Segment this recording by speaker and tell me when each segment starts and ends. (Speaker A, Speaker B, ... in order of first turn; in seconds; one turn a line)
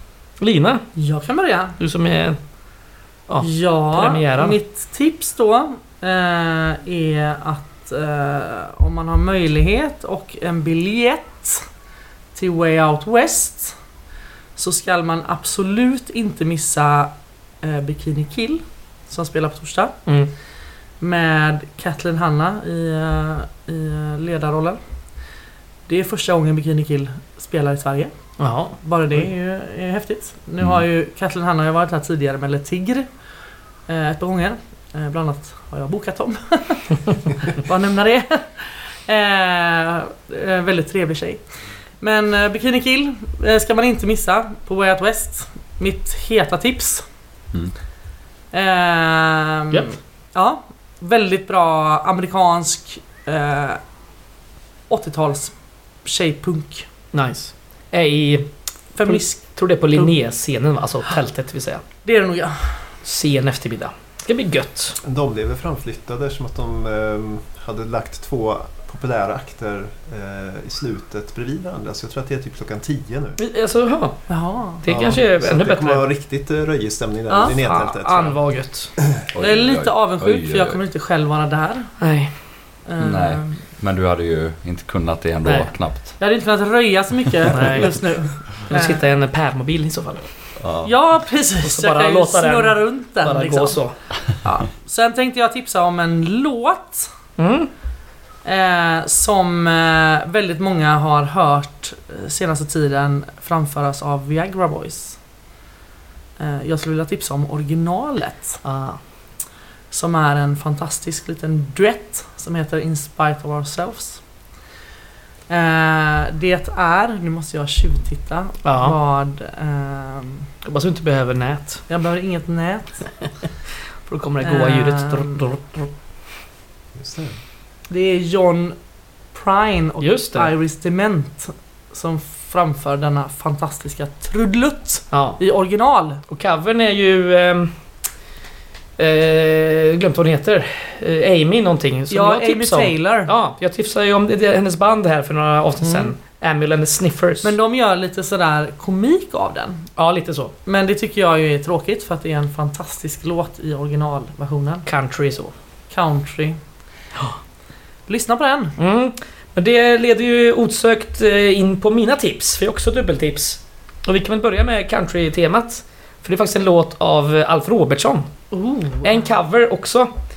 Speaker A: 0.4-0.9
Speaker B: 1.0-1.8
Speaker A: 1.8-2.4
Speaker A: 3.3-4.6
Speaker B: 3.4-11.6
Speaker B: 12.3-13.8
Speaker B: 14.6-20.0
Speaker A: 20.1-20.3
Speaker B: 21.0-25.3
Speaker B: 25.9-28.1
Speaker A: 28.4-28.8
Speaker B: 28.7-33.3
Speaker B: 33.9-47.0
Speaker B: 48.5-53.8
Speaker A: 49.7-50.0
Speaker B: 54.9-56.9
Speaker A: 57.1-61.9
Speaker B: 59.0-60.1
Speaker B: 62.0-62.9
Speaker A: 63.0-65.0
Speaker C: 65.0-73.4
Speaker A: 73.4-76.0
Speaker B: 74.3-74.8
Speaker C: 74.8-78.4
Speaker B: 77.3-77.6
Speaker A: 77.6-78.9
Speaker D: 79.3-80.8
Speaker B: 79.4-81.9
Speaker A: 82.0-82.4
Speaker B: 82.8-83.6
Speaker D: 83.0-86.2
Speaker A: 85.4-85.7
Speaker B: 86.2-89.0
Speaker A: 87.5-90.3
Speaker D: 90.6-90.9
Speaker B: 90.8-97.1
Speaker A: 91.6-94.0
Speaker A: 97.4-97.7
Speaker B: 98.4-105.2
Speaker B: 106.4-108.6
Speaker A: 108.6-109.0
Speaker B: 109.9-114.2
Speaker B: 115.5-120.5
Speaker A: 118.6-119.0
Speaker A: 120.6-121.9
Speaker B: 121.9-123.3
Speaker A: 124.0-125.9
Speaker B: 124.4-125.4
Speaker C: 127.0-127.4
Speaker B: 127.9-136.2
Speaker A: 130.0-130.5
Speaker A: 135.1-135.4
Speaker A: 136.3-137.7
Speaker A: 139.0-147.5
Speaker B: 142.1-143.3
Speaker B: 145.8-146.1
Speaker B: 147.4-149.9
Speaker A: 150.0-150.5
Speaker B: 150.7-154.8
Speaker A: 154.8-155.5
Speaker B: 155.9-156.6
Speaker B: 158.1-158.8
Speaker A: 158.8-168.4
Speaker B: 168.5-169.2
Speaker A: 169.0-170.1